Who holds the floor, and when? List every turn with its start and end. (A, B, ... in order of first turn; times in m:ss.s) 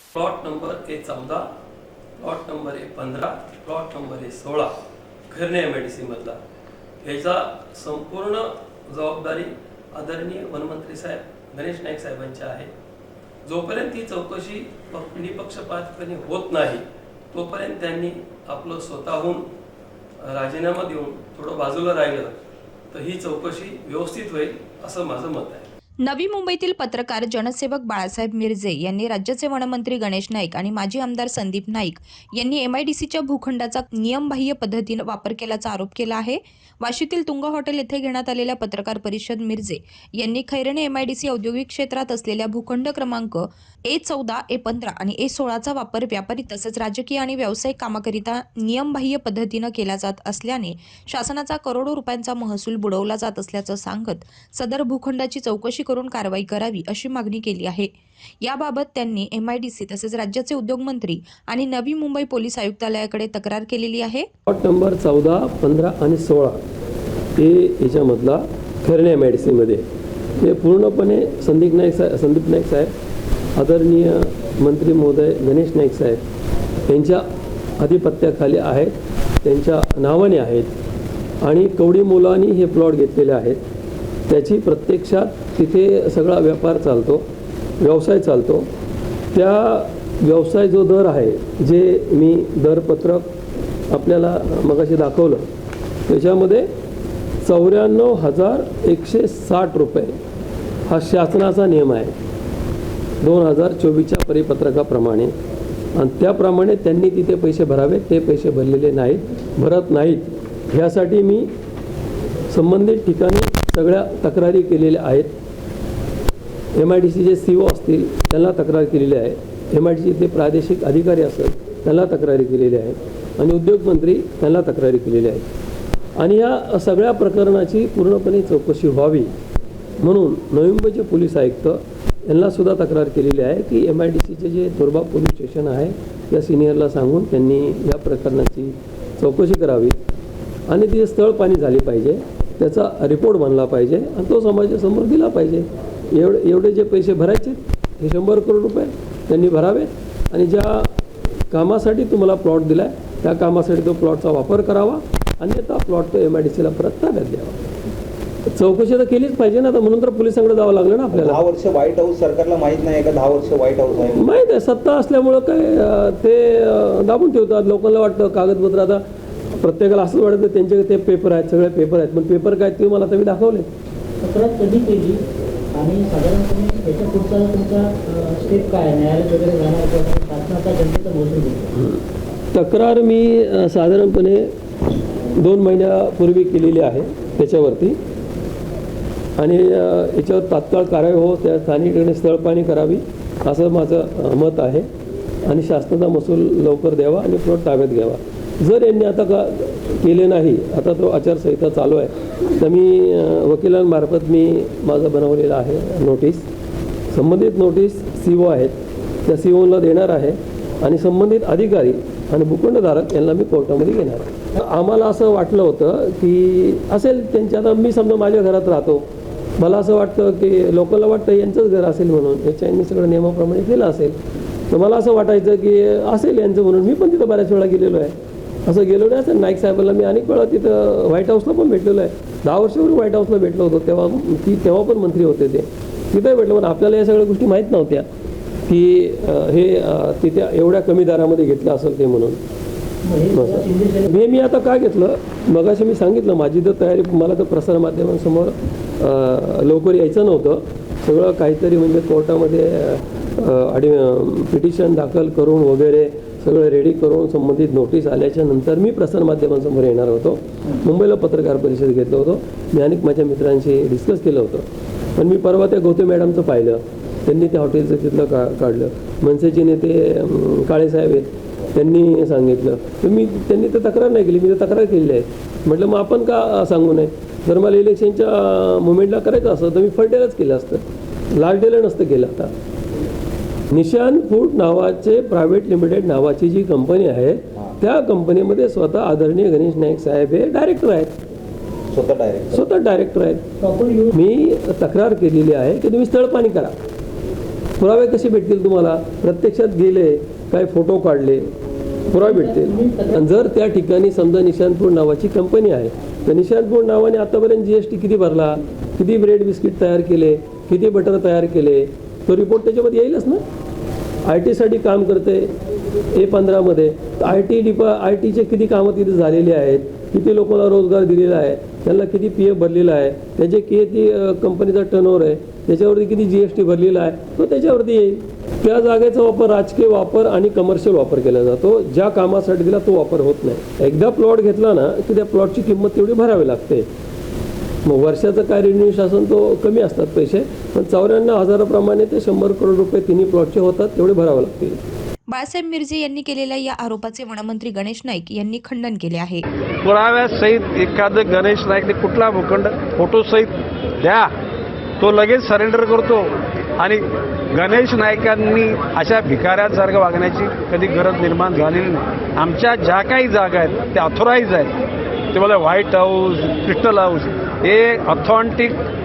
0:00.1-0:01.6 A
0:02.2-0:06.4 A
0:07.0-0:12.7 A
0:13.4-0:19.5 A
0:20.2-0:25.7 A
0:26.0-1:04.2 B
1:04.5-1:06.6 A
1:07.3-1:09.8 A
1:10.4-1:12.9 A
1:13.5-1:16.2 A
1:16.9-1:17.2 A
1:17.8-1:20.7 A
1:21.4-1:23.6 A
1:24.3-1:27.3 A
1:27.8-1:28.7 A
1:29.3-1:33.3 A
1:33.9-1:35.5 A
1:36.1-1:36.7 A
1:37.4-1:40.2 A
1:40.9-1:42.1 A
1:43.2-1:45.3 A
1:45.9-1:51.5 A
1:52.5-1:55.3 A
1:56.7-2:05.4 A
2:06.2-2:09.3 A
2:10.0-2:20.0 A
2:20.7-2:30.9 A
2:31.5-2:37.6 A
2:38.5-2:41.4 A
2:41.1-2:44.3 C
2:44.1-2:49.0 A
2:49.5-2:53.7 A
2:54.2-3:01.7 D
3:01.7-3:04.5 A
3:05.3-3:08.0 A
3:09.4-3:14.9 A
3:15.4-3:26.5 A
3:27.1-3:39.0 A
3:39.6-3:44.2 A
3:44.7-3:58.1 A
3:58.7-4:02.4 A
4:03.0-4:04.1 D
4:03.3-4:42.5 A
4:43.7-4:51.2 A
4:51.9-4:52.6 C
4:52.5-4:53.5 A
4:53.6-4:54.1 D
4:54.1-4:56.8 A
4:57.8-5:01.5 A
5:02.1-5:13.4 A
5:02.2-5:03.2 D
5:14.2-5:15.5 A
5:16.1-5:36.9 A
5:37.8-5:44.8 A
5:45.3-5:49.4 B
5:49.8-5:54.3 E
5:55.0-6:04.7 E
6:05.3-6:08.8 E